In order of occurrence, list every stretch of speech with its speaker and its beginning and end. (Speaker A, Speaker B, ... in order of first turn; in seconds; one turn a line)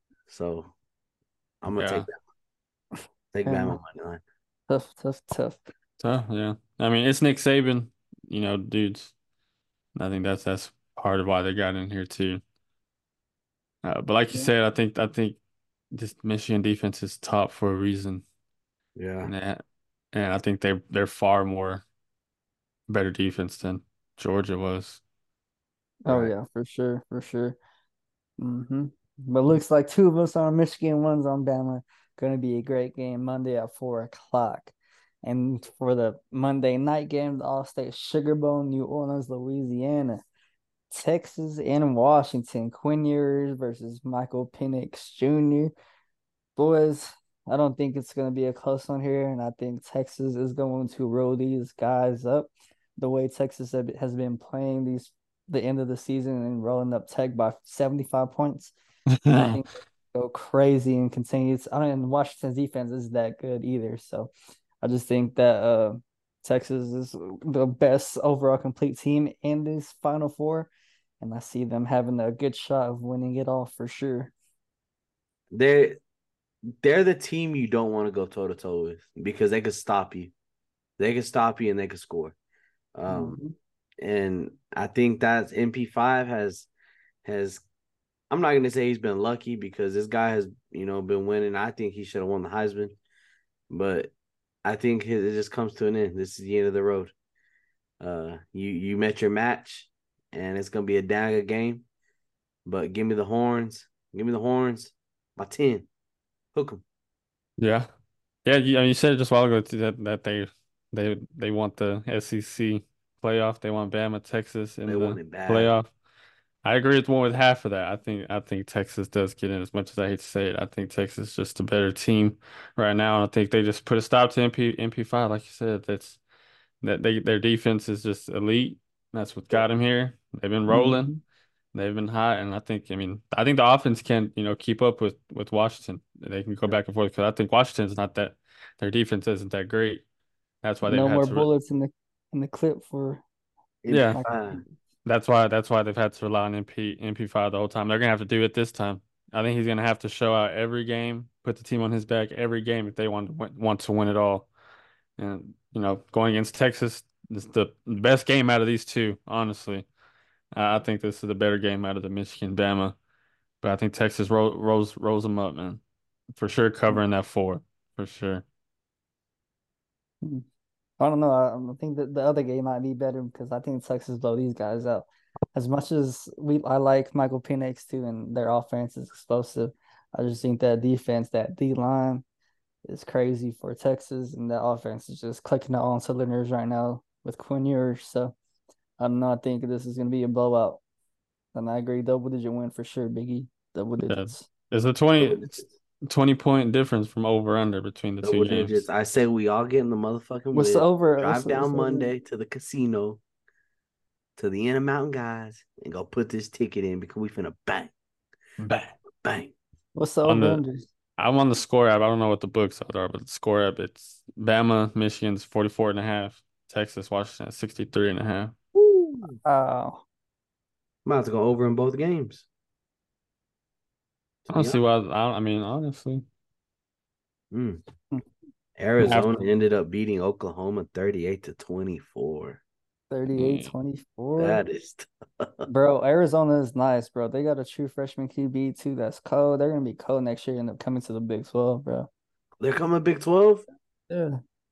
Speaker A: 0.3-0.7
Speaker A: 1.6-2.1
Speaker B: 1.8-2.1
Speaker A: 3.3-4.2
Speaker C: 3.4-3.8
Speaker C: 4.7-5.6
Speaker B: 6.0-9.1
Speaker B: 10.0-12.4
Speaker B: 13.8-15.4
Speaker B: 15.9-18.2
Speaker A: 19.0-19.3
Speaker B: 19.2-19.6
Speaker B: 20.1-21.8
Speaker B: 22.9-25.0
Speaker C: 26.1-27.6
Speaker A: 26.1-26.3
Speaker C: 28.4-40.2
Speaker C: 40.9-45.7
Speaker C: 46.6-58.7
Speaker B: 59.1-59.6
Speaker C: 59.3-64.3
Speaker C: 64.8-70.7
Speaker C: 71.2-74.3
Speaker A: 75.5-76.0
Speaker A: 76.8-80.3
Speaker A: 81.0-82.3
Speaker A: 83.0-83.4
Speaker C: 83.1-83.5
Speaker A: 84.0-86.7
Speaker A: 87.2-87.7
Speaker A: 88.3-93.0
Speaker A: 93.7-94.1
Speaker A: 94.7-97.1
Speaker A: 98.0-101.9
Speaker A: 102.7-105.9
Speaker A: 106.5-106.8
Speaker B: 107.6-107.9
Speaker B: 108.5-115.9
Speaker A: 114.9-115.7
Speaker B: 116.6-126.2
Speaker B: 126.8-131.1
Speaker C: 130.7-131.2
Speaker B: 131.7-140.0
Speaker B: 140.6-141.5
Speaker C: 140.9-143.2
Speaker A: 143.8-144.6
Speaker B: 143.9-144.2
Speaker B: 145.1-154.5
Speaker B: 155.2-159.9
Speaker B: 160.5-163.0
Speaker B: 163.6-165.8
Speaker B: 166.3-168.4
Speaker C: 171.0-182.2
Speaker C: 182.9-188.3
Speaker C: 189.0-190.8
Speaker C: 191.5-194.5
Speaker B: 194.1-198.8
Speaker A: 195.2-195.7
Speaker A: 198.2-203.2
Speaker C: 200.5-202.1
Speaker A: 204.4-207.9
Speaker A: 208.7-209.5
Speaker C: 209.9-210.9
Speaker B: 210.3-210.6
Speaker B: 211.2-218.6
Speaker A: 218.8-219.4
Speaker C: 219.4-220.0
Speaker A: 221.1-222.5
Speaker A: 224.5-224.8
Speaker B: 224.5-226.3
Speaker A: 227.5-227.8
Speaker A: 228.8-232.6
Speaker B: 229.0-229.4
Speaker C: 233.1-234.6
Speaker B: 233.3-233.7
Speaker A: 234.4-235.7
Speaker C: 235.7-242.1
Speaker A: 242.6-243.7
Speaker C: 244.1-244.4